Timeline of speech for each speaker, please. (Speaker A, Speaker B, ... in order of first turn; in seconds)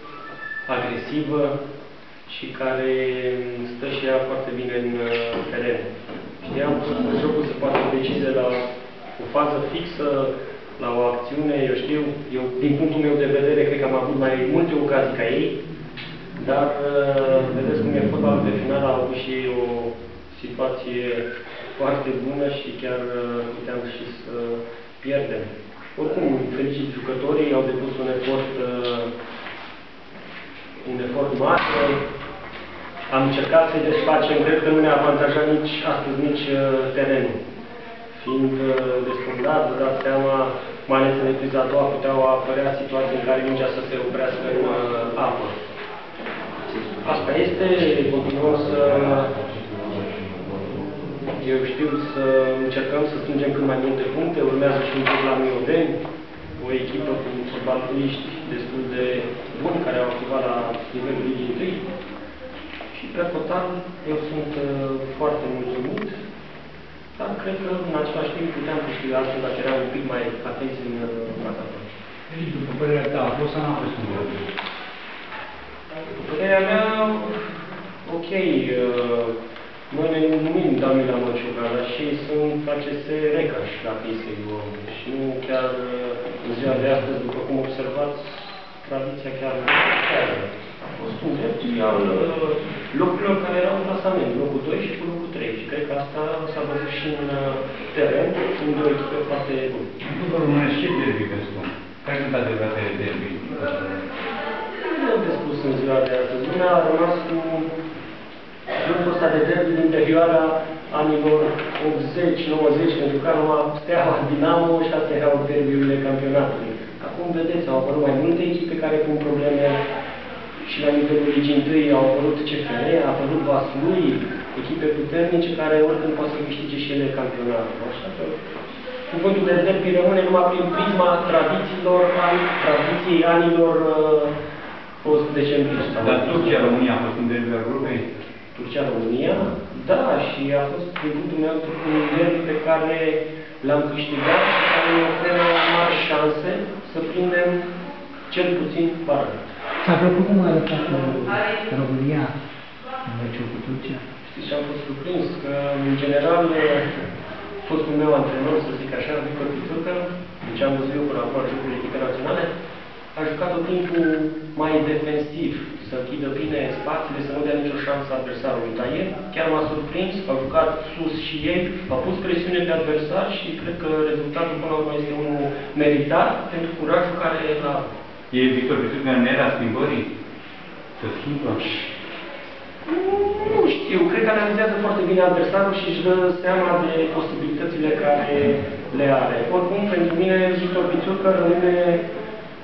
Speaker A: 0.7-1.6, 2.3-8.7, 9.2-15.6, 16.4-29.1, 30.8-32.0, 33.1-37.4, 38.1-45.6, 46.8-49.4, 51.2-56.0, 56.6-61.8, 62.9-66.2, 67.2-71.9, 76.1-77.5, 78.0-79.4, 79.9-99.9, 104.7-107.7, 108.8-119.8, 120.6-128.4, 129.1-134.4, 135.0-136.8, 138.5-147.6, 148.3-149.4, 154.2-157.0, 157.6-162.5, 163.1-177.9, 182.9-192.0
Speaker B: 72.3-74.5, 100.0-104.1, 136.0-138.1, 178.3-180.1, 181.0-181.6
Speaker C: 149.8-152.3, 153.0-154.0